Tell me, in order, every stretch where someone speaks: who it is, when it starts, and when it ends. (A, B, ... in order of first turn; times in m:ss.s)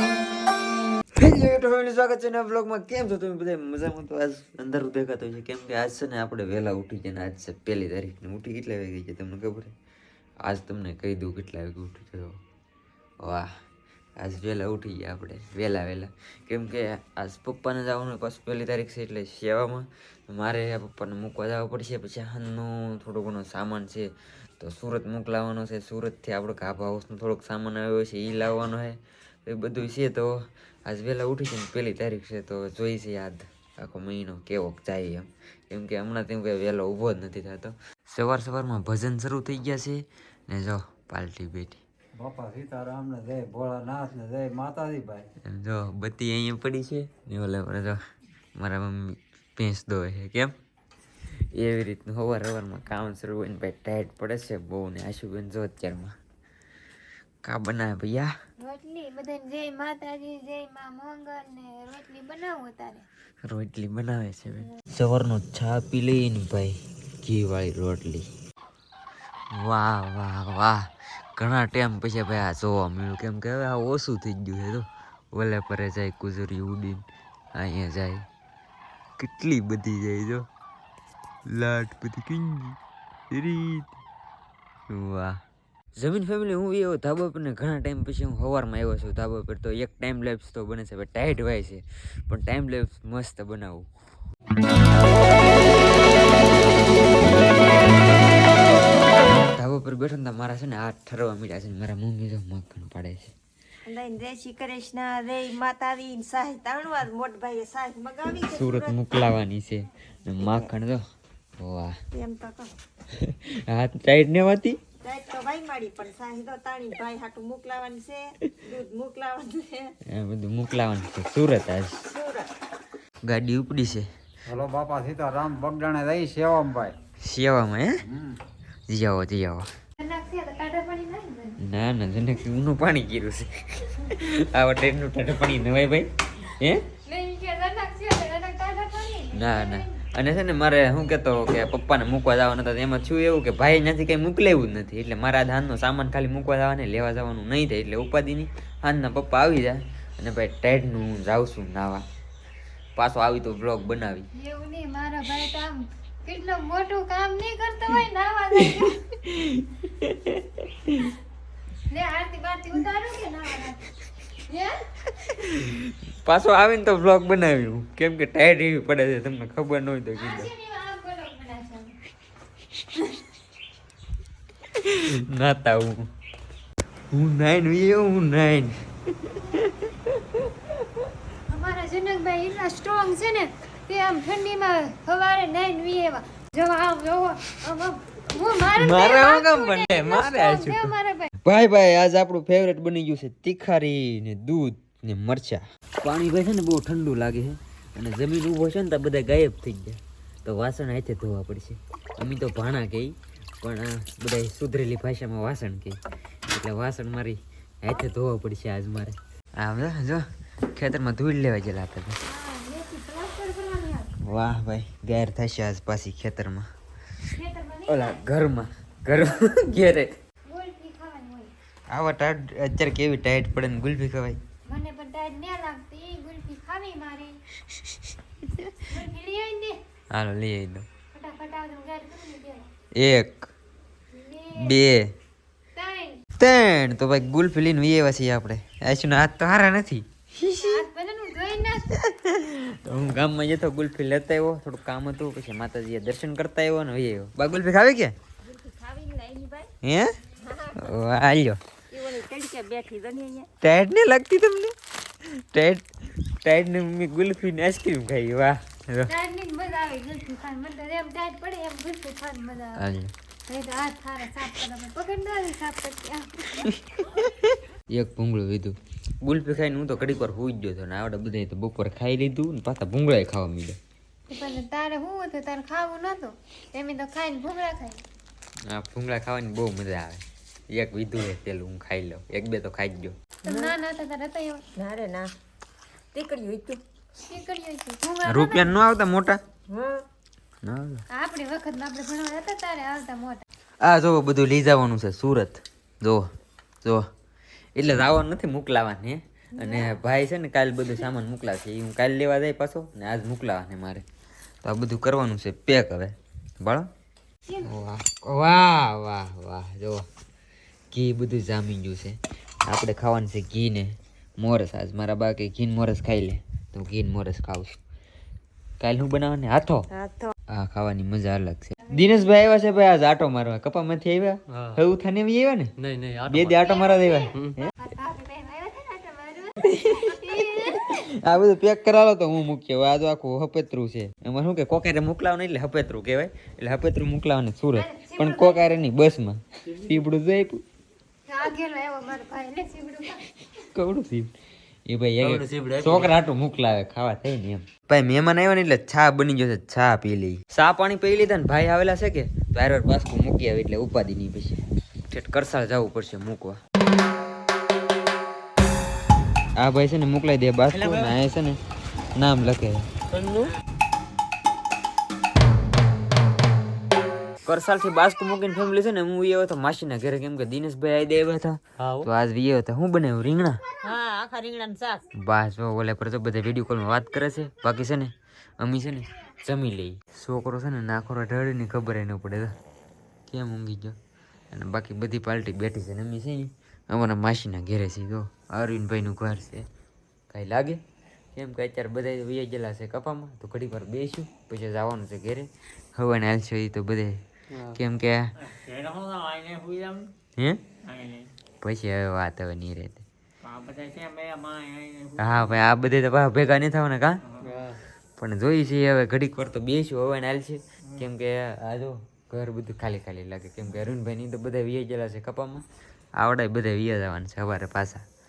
0:01.2-0:09.7 A
0:10.4-0:12.4 A
0:13.2-0:13.5 A
0:14.2-0:41.8 A
0:42.2-0:45.3 B
0:45.4-0:48.0 A
0:48.6-0:50.5 A
0:51.3-0:56.1 A
0:57.4-0:58.3 A
0:58.6-1:03.0 C
1:03.4-1:08.3 A
1:09.5-1:18.3 A
1:19.2-1:20.4 A
1:21.5-1:22.8 A
1:23.3-1:24.0 A
1:24.9-1:25.4 A
1:26.0-1:33.9 A
1:39.4-1:43.3 A
1:43.8-1:49.0 D
1:48.4-1:51.0 A
1:50.4-1:50.7 D
1:51.6-1:52.0 A
1:52.1-1:52.7 D
1:53.1-1:54.8 A
1:55.0-1:59.9 D
2:00.1-2:02.0 A
2:02.1-2:02.5 D
2:03.2-2:04.1 A
2:04.5-2:07.0 B
2:07.2-2:08.0 A
2:08.1-2:08.4 B
2:08.9-2:09.7 A
2:10.0-2:11.6 C
2:11.6-2:16.8 A
2:17.0-2:20.0 C
2:19.3-2:32.0 A
2:33.0-2:34.3 A
2:34.4-2:39.0 C
2:38.6-2:41.2 A
2:41.9-2:44.8 C
2:45.2-2:50.5 A
2:50.2-2:51.9 C
2:54.7-2:56.1 A
2:57.1-3:00.7 A
3:01.5-3:11.3 C
3:08.8-3:26.0 A
3:26.5-3:32.2 A
3:32.2-3:34.1 C
3:34.2-3:36.6 A
3:37.3-3:38.2 C
3:37.9-3:40.1 A
3:40.5-3:41.5 C
3:41.9-3:44.4 A
3:44.7-3:47.4 C
3:48.5-3:48.8 A
3:48.8-3:49.8 C
3:50.1-3:50.8 A
3:51.1-3:52.7 C
3:53.0-3:53.5 A
3:54.1-3:54.8 C
3:54.6-3:55.1 A
3:55.8-3:56.2 C
3:56.4-4:00.8 A
4:00.5-4:01.9 C
4:01.9-4:08.1 A
4:08.4-4:09.7 D
4:09.8-4:10.2 A
4:10.4-4:10.9 D
4:10.8-4:11.6 A
4:11.9-4:13.5 D
4:13.6-4:15.9 A
4:16.4-4:19.1 A
4:19.1-4:22.8 C
4:22.8-4:23.1 A
4:23.5-4:26.7 C
4:27.1-4:33.8 A
4:34.3-4:38.0 C
4:38.7-4:43.2 A
4:43.4-4:44.6 C
4:43.5-4:43.8 D
4:44.8-4:45.3 D
4:46.1-4:46.8 D
4:47.3-4:48.8 C
4:48.3-4:49.4 A
4:49.7-4:50.0 D
4:50.6-4:51.0 A
4:51.1-4:53.4 C
4:53.8-4:56.3 A
4:57.8-5:04.0 A
4:59.6-4:59.9 C
5:04.6-5:06.9 A
5:07.5-5:07.7 C
5:07.6-5:10.0 A
5:10.9-5:17.8 A
5:18.8-5:19.9 A
5:20.0-5:20.3 D
5:20.5-5:25.7 A
5:24.6-5:24.8 E
5:25.8-5:26.5 E
5:26.3-5:27.7 A
5:26.6-5:30.9 C
5:29.6-5:40.6 A
5:37.7-5:38.8 C
5:41.3-5:43.3 C
5:43.7-5:44.3 A
5:44.9-5:56.6 A
5:45.4-5:45.8 E
5:59.6-6:01.6 A
6:00.8-6:01.1 E
6:02.2-6:02.9 A
6:07.5-6:13.6 A
6:14.7-6:15.0 D
6:15.2-6:22.5 A
6:23.3-6:24.0 A
6:24.5-6:29.7 A
6:30.3-6:30.8 A
6:31.4-6:37.2 A
6:37.7-6:38.3 A
6:38.4-6:40.1 E
6:40.9-6:41.3 E
6:41.6-6:43.0 A
6:43.4-6:45.7 E
6:45.2-6:47.2 A
6:47.4-6:47.7 E
6:48.2-6:55.6 A
6:56.2-6:58.0 A